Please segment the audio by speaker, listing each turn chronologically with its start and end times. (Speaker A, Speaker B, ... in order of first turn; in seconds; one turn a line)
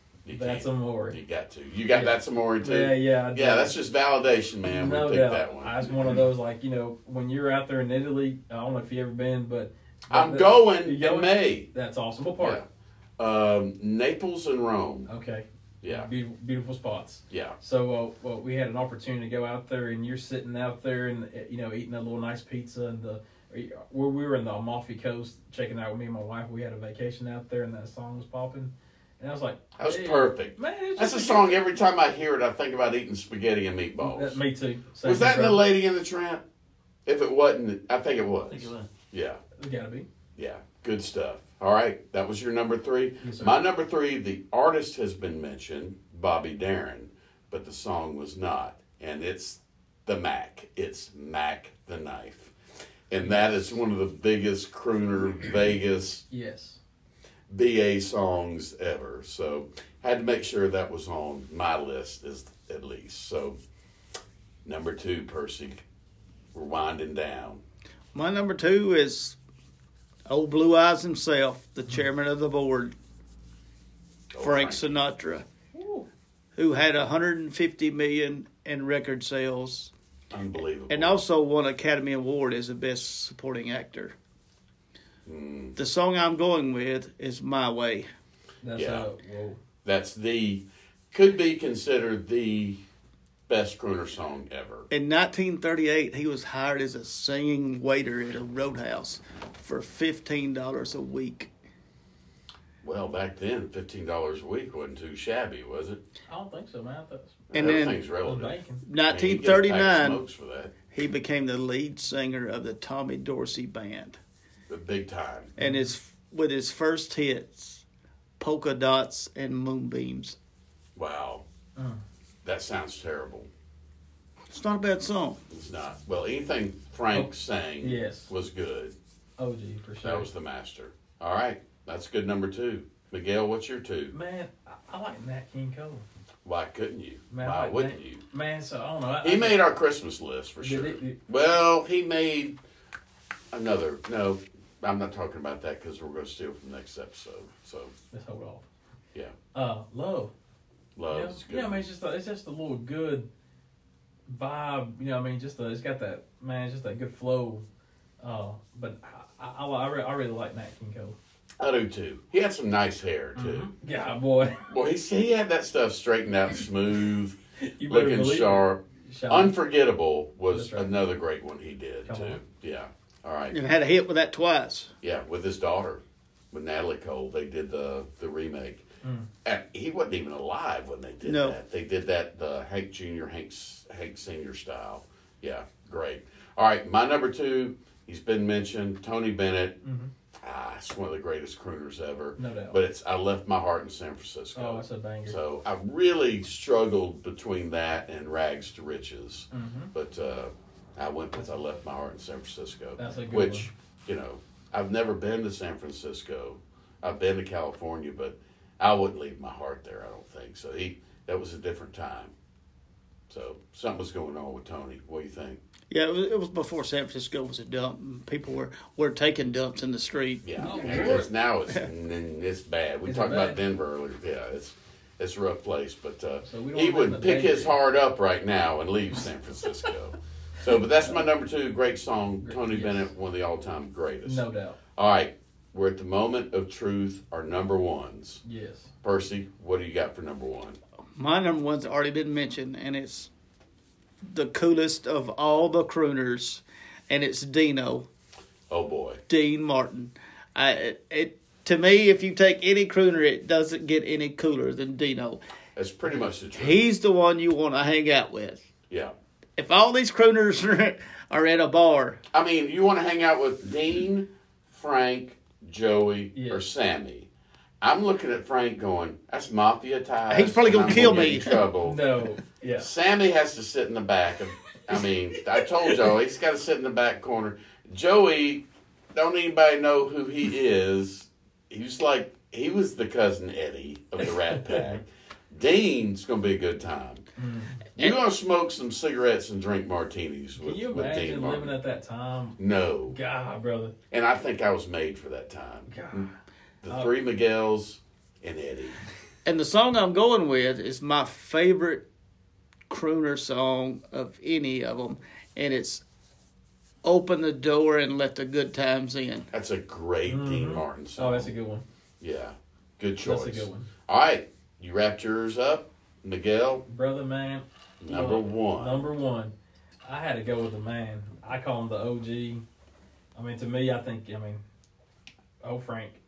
Speaker A: 0.2-6.2
Speaker B: 0.3-1.2
Speaker B: 1.9-3.7
Speaker B: 4.7-12.6
Speaker A: 10.1-11.7
Speaker A: 12.4-12.6
Speaker A: 13.2-15.1
Speaker B: 15.1-31.6
Speaker A: 15.8-16.1
Speaker A: 17.3-17.6
Speaker A: 29.8-34.4
Speaker B: 34.0-35.6
Speaker A: 35.0-36.4
Speaker A: 37.0-39.4
Speaker B: 38.5-38.8
Speaker B: 39.6-40.1
Speaker A: 40.4-52.5
Speaker B: 43.2-43.6
Speaker A: 53.1-56.2
Speaker B: 56.3-56.8
Speaker A: 57.5-63.6
Speaker A: 64.6-65.8
Speaker A: 66.5-67.6
Speaker C: 68.1-69.4
Speaker C: 70.2-72.9
Speaker A: 74.3-74.8
Speaker C: 74.4-75.5
Speaker B: 75.7-76.1
Speaker C: 76.5-79.9
Speaker A: 80.3-81.2
Speaker C: 80.9-84.2
Speaker A: 85.2-85.8
Speaker C: 85.8-88.1
Speaker B: 88.6-89.6
Speaker A: 88.7-89.1
Speaker A: 89.8-92.8
Speaker A: 93.5-94.9
Speaker C: 94.9-101.5
Speaker A: 102.8-106.0
Speaker B: 106.3-107.5
Speaker A: 107.5-110.7
Speaker C: 107.5-108.0
Speaker B: 108.2-108.8
Speaker C: 108.8-110.2
Speaker C: 110.9-114.2
Speaker A: 114.7-115.5
Speaker C: 115.6-117.8
Speaker B: 115.6-115.9
Speaker C: 118.4-120.4
Speaker A: 121.0-121.4
Speaker B: 121.8-122.0
Speaker A: 122.4-123.5
Speaker C: 124.5-125.4
Speaker A: 125.5-128.9
Speaker B: 127.8-128.3
Speaker B: 129.4-130.3
Speaker A: 130.0-134.2
Speaker B: 134.1-136.0
Speaker A: 136.4-138.2
Speaker B: 137.3-139.6
Speaker A: 139.2-142.6
Speaker B: 140.6-141.2
Speaker A: 143.5-147.9
Speaker B: 148.1-148.6
Speaker B: 149.5-150.3
Speaker A: 150.9-151.8
Speaker B: 151.1-153.3
Speaker B: 154.3-157.6
Speaker B: 158.2-161.2
Speaker A: 161.6-163.7
Speaker B: 163.3-164.7
Speaker A: 164.7-173.5
Speaker B: 167.6-169.5
Speaker B: 170.5-170.9
Speaker B: 172.1-172.4
Speaker C: 173.5-174.9
Speaker A: 175.0-178.8
Speaker B: 179.0-179.3
Speaker A: 179.4-189.8
Speaker C: 181.2-181.6
Speaker B: 189.8-190.1
Speaker A: 190.4-212.3
Speaker B: 192.4-192.8
Speaker B: 194.5-195.3
Speaker B: 199.5-199.9
Speaker B: 203.0-203.7
Speaker A: 213.3-215.6
Speaker C: 215.9-221.1
Speaker A: 220.4-234.4
Speaker B: 220.6-221.3
Speaker B: 223.0-223.6
Speaker B: 226.4-227.7
Speaker B: 232.4-233.1
Speaker B: 234.2-234.8
Speaker A: 234.9-238.4
Speaker B: 238.4-238.9
Speaker A: 239.0-240.8
Speaker C: 241.2-243.3
Speaker C: 244.2-248.1
Speaker A: 248.7-249.2
Speaker C: 249.3-255.4
Speaker A: 255.8-256.8
Speaker C: 256.5-258.6
Speaker C: 259.6-262.2
Speaker A: 262.3-267.3
Speaker B: 266.3-266.6
Speaker A: 267.8-272.0
Speaker C: 270.3-271.6
Speaker B: 271.8-272.9
Speaker A: 272.8-287.2
Speaker B: 284.5-284.8
Speaker B: 287.4-287.9
Speaker A: 287.9-291.8
Speaker B: 290.6-292.6
Speaker A: 292.6-293.1
Speaker B: 293.1-293.9
Speaker A: 294.1-296.3
Speaker B: 295.9-296.3
Speaker A: 296.8-299.0
Speaker C: 299.4-302.1
Speaker C: 302.9-306.0
Speaker C: 307.0-309.5
Speaker A: 309.5-311.5
Speaker B: 310.3-311.8
Speaker A: 312.2-316.8
Speaker B: 313.2-313.9
Speaker B: 316.9-319.5
Speaker A: 318.0-319.1
Speaker B: 320.0-322.6
Speaker B: 323.3-324.6
Speaker B: 325.6-326.2